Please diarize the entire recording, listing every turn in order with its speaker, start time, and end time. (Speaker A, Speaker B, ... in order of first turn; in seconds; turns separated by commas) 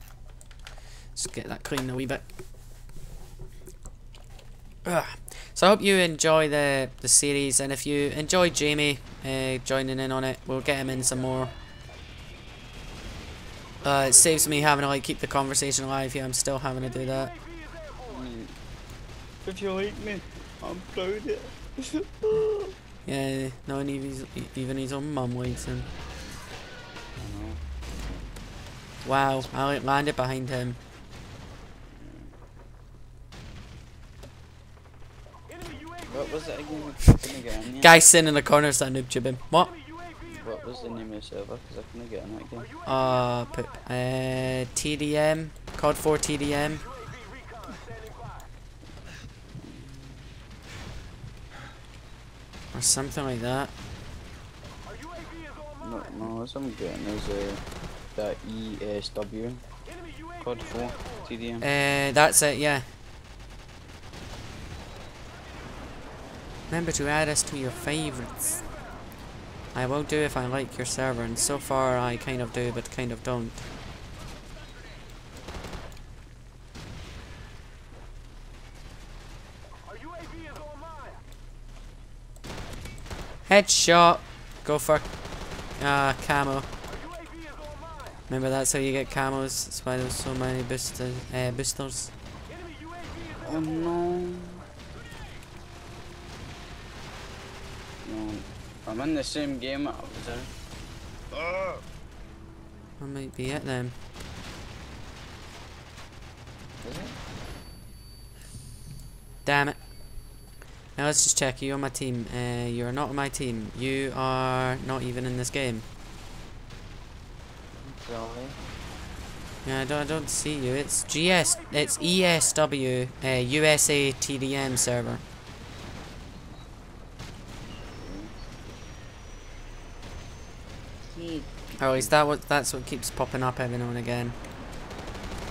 Speaker A: 1.1-2.2, Speaker A: 4.8-11.5, Speaker A: 13.8-17.3, Speaker B: 18.0-18.6, Speaker B: 19.4-22.7, Speaker A: 23.1-25.9, Speaker B: 27.2-27.6, Speaker A: 29.0-30.8, Speaker B: 32.0-32.3, Speaker B: 36.1-38.0, Speaker A: 37.8-39.7, Speaker B: 40.2-42.7, Speaker A: 42.9-46.9, Speaker B: 49.6-50.3, Speaker A: 52.7-53.7, Speaker B: 55.8-57.6, Speaker B: 58.1-59.6, Speaker B: 60.4-61.7, Speaker A: 61.6-62.8, Speaker A: 66.7-68.6, Speaker A: 69.7-73.6, Speaker A: 83.5-85.1, Speaker A: 85.8-86.7, Speaker A: 88.3-92.1, Speaker B: 93.4-94.6, Speaker B: 98.0-100.5, Speaker B: 101.3-101.8, Speaker A: 103.0-104.0, Speaker B: 106.8-107.2, Speaker A: 109.5-109.8, Speaker A: 111.0-115.8, Speaker B: 117.8-118.6, Speaker A: 119.7-125.2, Speaker B: 127.9-128.5, Speaker B: 131.1-132.1, Speaker A: 131.8-134.3